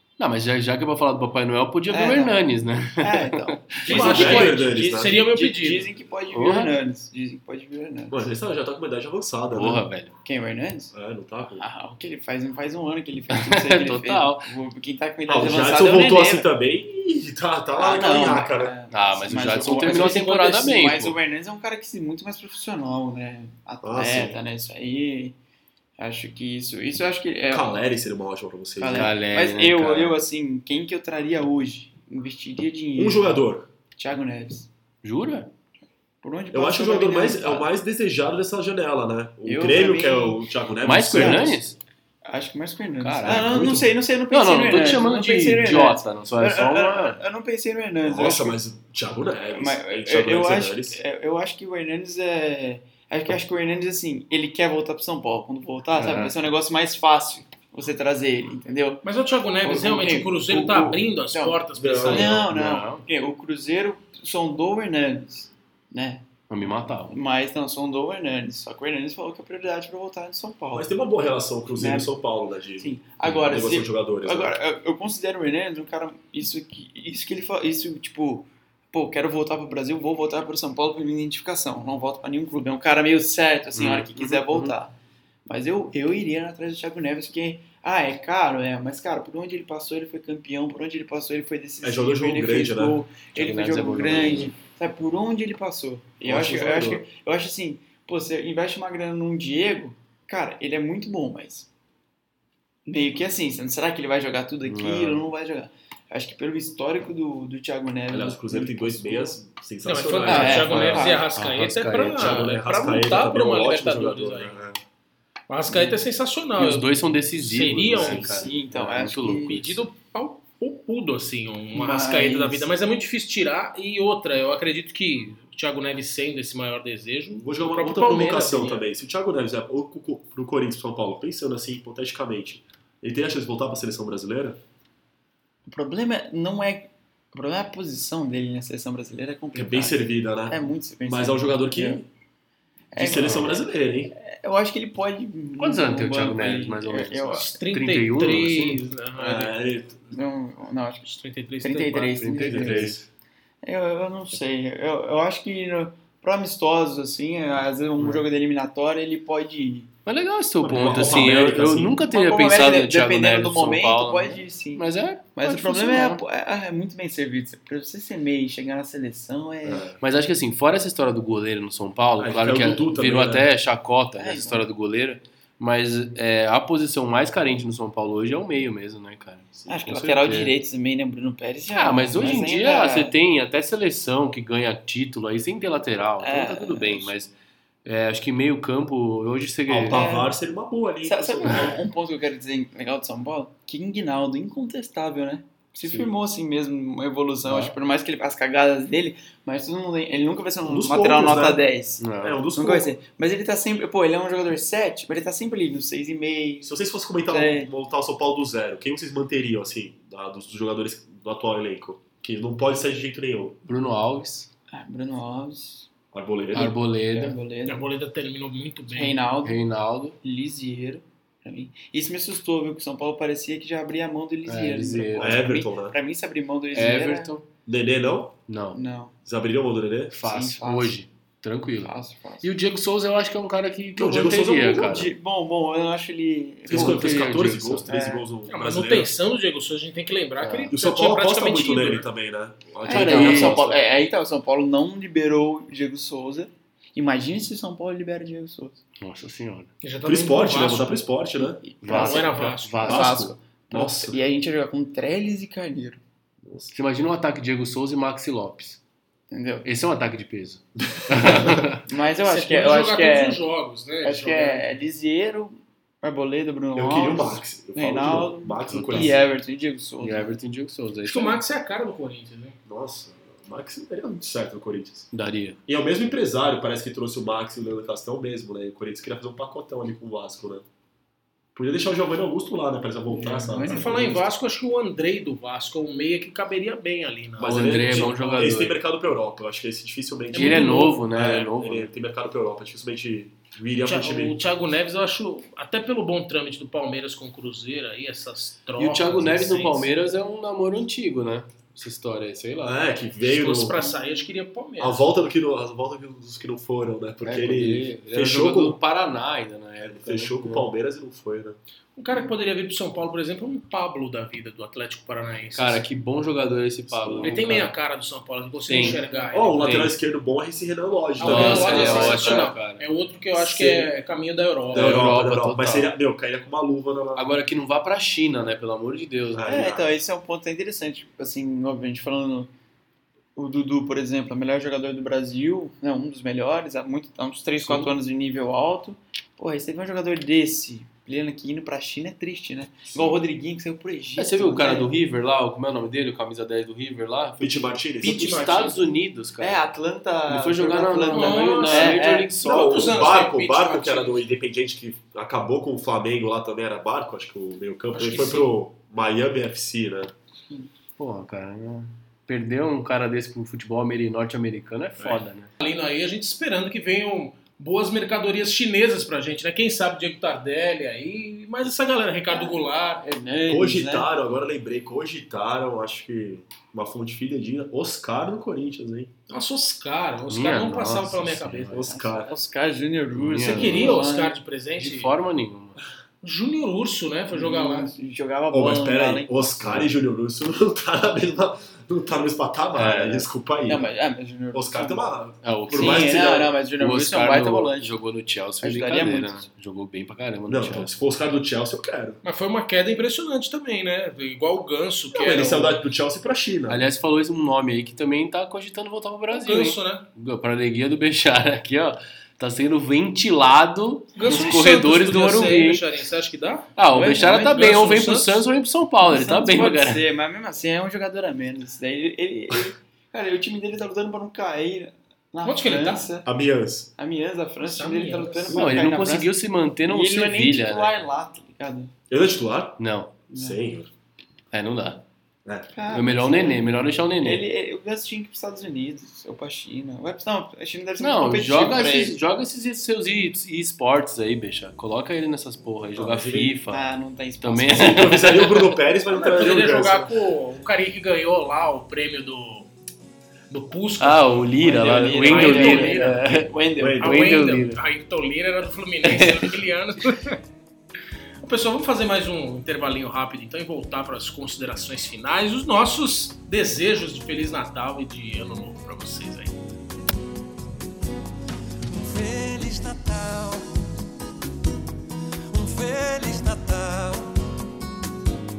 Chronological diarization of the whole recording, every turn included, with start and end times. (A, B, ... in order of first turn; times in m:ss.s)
0:00.2-0:03.6 A
0:01.9-0:02.4 B
0:03.0-0:08.3 B
0:03.8-0:05.2 C
0:03.9-0:05.9 D
0:06.3-0:06.7 A
0:08.1-0:09.8 C
0:09.5-0:10.1 A
0:10.2-0:10.9 B
0:10.9-0:11.6 C
0:11.6-0:16.5 B
0:13.3-0:14.5 A
0:15.3-0:18.7 C
0:17.8-0:25.4 B
0:18.9-0:21.2 A
0:23.8-0:24.4 C
0:26.0-0:27.8 B
0:27.5-0:29.1 C
0:28.8-0:33.4 B
0:28.9-0:30.2 A
0:33.0-0:33.7 C
0:34.0-0:34.7 B
0:35.0-0:35.5 A
0:36.2-0:37.7 B
0:36.5-0:41.6 C
0:39.4-0:40.4 B
0:40.8-0:41.8 A
0:41.1-0:41.5 B
0:42.2-0:48.6 B
0:43.0-0:43.7 A
0:43.2-0:44.0 C
0:44.3-0:47.2 A
0:48.0-0:51.0 C
0:49.5-0:59.0 B
0:56.0-0:56.4 A
0:59.0-1:02.3 D
0:59.6-1:06.3 B
1:01.7-1:02.4 C
1:02.2-1:03.0 A
1:06.5-1:07.1 A
1:07.1-1:10.9 B
1:10.7-1:14.6 C
1:11.8-1:12.1 B
1:12.8-1:24.9 B
1:23.7-1:24.7 A
1:25.4-1:41.7 B
1:31.8-1:33.0 C
1:33.3-1:34.5 A
1:36.2-1:37.1 C
1:42.8-1:49.4 B
1:44.6-1:45.2 A
1:48.1-1:50.9 C
1:49.8-1:54.5 D
1:50.2-1:51.2 B
1:50.7-1:52.4 A
1:52.1-1:54.8 C
1:55.5-1:58.4 D
1:56.6-1:59.8 A
1:57.9-1:58.5 C
1:58.3-1:59.8 B
1:59.5-2:08.9 D
2:01.7-2:02.7 B
2:07.4-2:14.6 C
2:15.6-2:22.0 B
2:19.5-2:22.0 C
2:22.9-2:27.5 B
2:23.0-2:24.1 C
2:23.2-2:23.5 A
2:25.6-2:28.8 A
2:27.3-2:29.6 D
2:29.2-2:30.1 C
2:30.1-2:32.9 B
2:31.1-2:32.2 D
2:32.2-2:33.0 A
2:32.4-2:33.0 C
2:33.6-2:39.9 B
2:40.0-2:46.2 A
2:40.6-2:42.0 C
2:40.8-2:41.3 B
2:42.0-2:49.9 B
2:49.6-2:50.0 C
2:50.0-3:00.5 A
2:52.2-2:53.5 C
2:54.2-2:54.6 B
2:59.7-3:03.1 B
3:01.7-3:07.3 A
3:06.2-3:07.1 B
3:07.8-3:10.1 A
3:09.7-3:11.8 C
3:09.9-3:10.4 B
3:11.0-3:22.0 B
3:15.8-3:16.1 C
3:17.4-3:17.7 A
3:20.6-3:21.6 C
3:22.0-3:22.4 A
3:22.2-3:22.9 C
3:22.5-3:26.7 B
3:26.6-3:33.6 C
3:27.3-3:27.7 B
3:33.6-3:34.5 A
3:34.7-3:35.9 B
3:36.1-3:36.8 C
3:36.5-3:37.4 A
3:37.1-3:37.8 B
3:37.6-3:39.2 D
3:38.9-3:39.6 B
3:39.4-3:40.2 A
3:40.2-3:47.3 B
3:44.4-3:45.4 A
3:45.2-3:46.0 C
3:46.7-3:47.4 A
3:47.6-3:48.4 C
3:48.5-3:48.8 A
3:48.7-3:49.1 B
3:49.2-3:50.2 C
3:50.1-3:55.1 A
3:50.2-3:51.0 B
3:51.8-3:52.5 B
3:54.0-3:55.1 C
3:54.8-3:57.2 B
3:56.7-3:59.1 C
3:56.7-3:57.9 A
3:57.8-3:58.3 B
3:58.5-4:02.1 D
4:00.4-4:00.7 B
4:00.7-4:03.8 C
4:02.8-4:08.8 B
4:02.9-4:03.7 A
4:09.0-4:09.7 A
4:09.8-4:11.0 D
4:10.0-4:11.6 C
4:11.6-4:16.0 B
4:11.8-4:13.2 A
4:11.8-4:13.0 D
4:12.8-4:14.2 C
4:16.4-4:16.7 C
4:16.7-4:18.8 A
4:19.3-4:19.7 B
4:19.6-4:21.8 A
4:21.1-4:21.6 C
4:21.8-4:23.4 B
4:22.2-4:24.6 D
4:24.0-4:30.3 B
4:26.7-4:29.2 C
4:28.6-4:29.3 A
4:30.0-4:31.4 A
4:31.0-4:32.6 D
4:32.6-4:35.1 C
4:35.1-4:35.6 A
4:35.6-4:40.6 C
4:41.5-4:44.2 C
4:43.1-4:44.2 B
4:43.7-4:48.3 D
4:47.4-4:54.4 C
4:47.4-4:48.8 A
4:50.3-4:51.0 D
4:50.3-4:51.9 A
4:53.8-4:59.9 D
4:58.8-5:02.7 A
5:02.6-5:03.8 C
5:03.2-5:05.1 D
5:03.8-5:04.2 B
5:04.8-5:08.8 C
5:07.2-5:10.6 A
5:09.8-5:11.6 C
5:12.0-5:15.8 D
5:15.5-5:17.7 A
5:16.9-5:17.4 C
5:17.2-5:19.9 D
5:18.6-5:19.0 A
5:18.8-5:19.3 B
5:19.3-5:22.5 C
5:19.6-5:19.9 A
5:21.2-5:25.0 D
5:21.2-5:22.8 A
5:23.3-5:23.9 C
5:24.7-5:27.3 C
5:24.7-5:25.9 A
5:27.2-5:29.7 A
5:29.3-5:29.9 C
5:29.4-5:32.5 B
5:33.4-5:44.9 B
5:37.6-5:37.9 A
5:44.2-5:49.6 A
5:47.4-5:48.4 C
5:48.0-5:48.9 D
5:49.4-5:52.3 B
5:50.3-5:53.0 A
5:51.1-5:54.3 D
5:52.4-6:00.1 C
5:57.9-5:58.5 D
6:01.0-6:05.5 A
6:05.6-6:13.0 D
6:12.3-6:14.1 B
6:13.5-6:19.1 C
6:19.3-6:21.7 D
6:20.3-6:21.9 A
6:21.7-6:22.3 C
6:21.9-6:24.4 B
6:23.1-6:24.0 A
6:23.4-6:25.1 D
6:24.8-6:25.8 A
6:26.2-6:27.9 D
6:27.3-6:29.6 B
6:28.5-6:33.9 C
6:32.7-6:33.3 A
6:33.6-6:35.0 B
6:34.5-6:36.5 C
6:35.4-6:36.2 A
6:35.7-6:37.9 B
6:36.8-6:40.9 A
6:38.6-6:39.4 B
6:40.5-6:42.2 C
6:42.2-6:45.8 D
6:45.1-6:46.8 C
6:46.7-6:55.8 A
6:49.3-6:50.0 D
6:54.1-6:58.4 D
6:56.8-7:00.0 A
6:56.9-6:57.6 B
6:59.0-7:06.3 B
7:05.4-7:06.1 D
7:06.2-7:06.9 C
7:07.0-7:11.9 B
7:07.7-7:08.5 D
7:08.5-7:08.8 C
7:08.5-7:11.0 A
7:12.1-7:13.9 C
7:12.8-7:13.2 A
7:13.3-7:13.6 B
7:14.5-7:15.0 A
7:15.4-7:15.7 C
7:15.7-7:22.2 B
7:15.9-7:17.4 A
7:21.0-7:26.8 A
7:26.0-7:26.6 C
7:26.7-7:28.2 B
7:27.4-7:28.7 A
7:27.7-7:30.1 C
7:29.1-7:32.7 D
7:33.5-7:34.4 D
7:34.0-7:37.8 A
7:34.6-7:37.1 B
7:35.0-7:36.2 D
7:36.8-7:37.2 C
7:37.0-7:40.4 D
7:39.0-7:39.5 A
7:41.4-7:49.5 D
7:51.8-7:53.7 E
7:55.5-7:57.4 E